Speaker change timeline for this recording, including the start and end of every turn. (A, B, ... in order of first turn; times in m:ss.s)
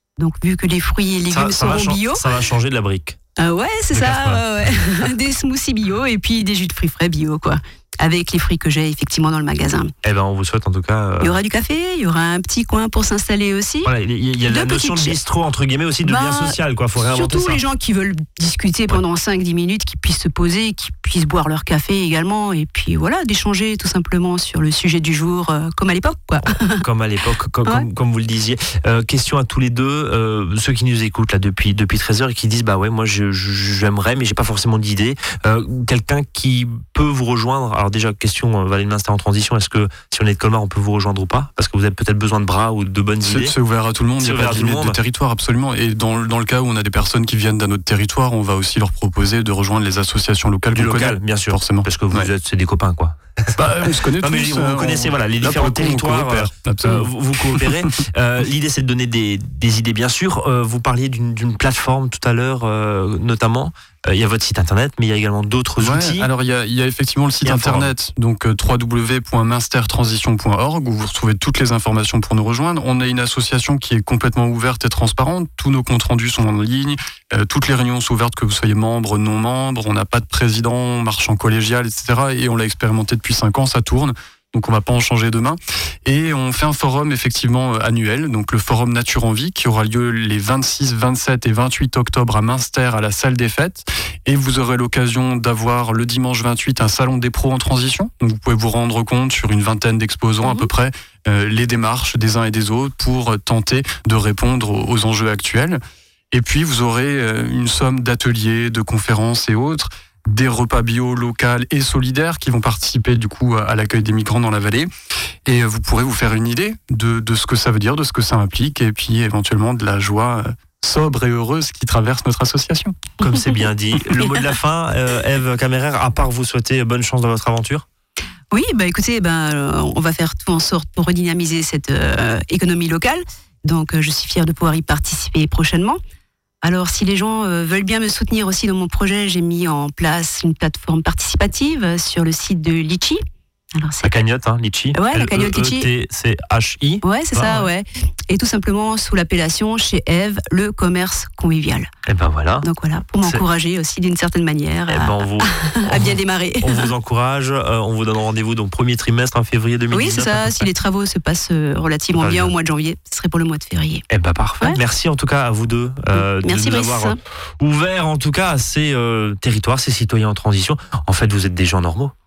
0:00.2-0:02.2 A
0:01.3-0:03.2 B
0:03.4-0:09.9 A
0:03.9-0:04.8 B
0:10.0-0:11.3 B
0:11.2-0:13.9 A
0:13.8-0:17.6 B
0:14.4-0:15.2 A
0:16.0-0:26.8 A
0:26.4-0:43.5 B
0:43.2-0:52.3 C
0:44.2-0:45.0 B
0:50.7-0:53.6 B
0:53.6-0:58.0 C
0:54.2-1:06.3 B
1:05.8-1:45.8 C
1:07.4-1:07.9 B
1:40.4-1:40.7 A
1:46.3-1:54.9 C
1:55.4-2:03.0 C
2:03.2-2:07.8 B
2:08.5-2:16.0 A
2:16.6-2:23.2 A
2:23.7-2:24.1 A
2:24.0-2:27.7 B
2:24.9-2:25.9 A
2:27.0-2:31.9 A
2:32.1-2:32.7 B
2:32.6-2:36.9 A
2:34.9-2:40.7 B
2:39.9-2:44.0 A
2:42.2-2:42.5 B
2:44.1-2:52.1 B
2:46.1-2:47.2 A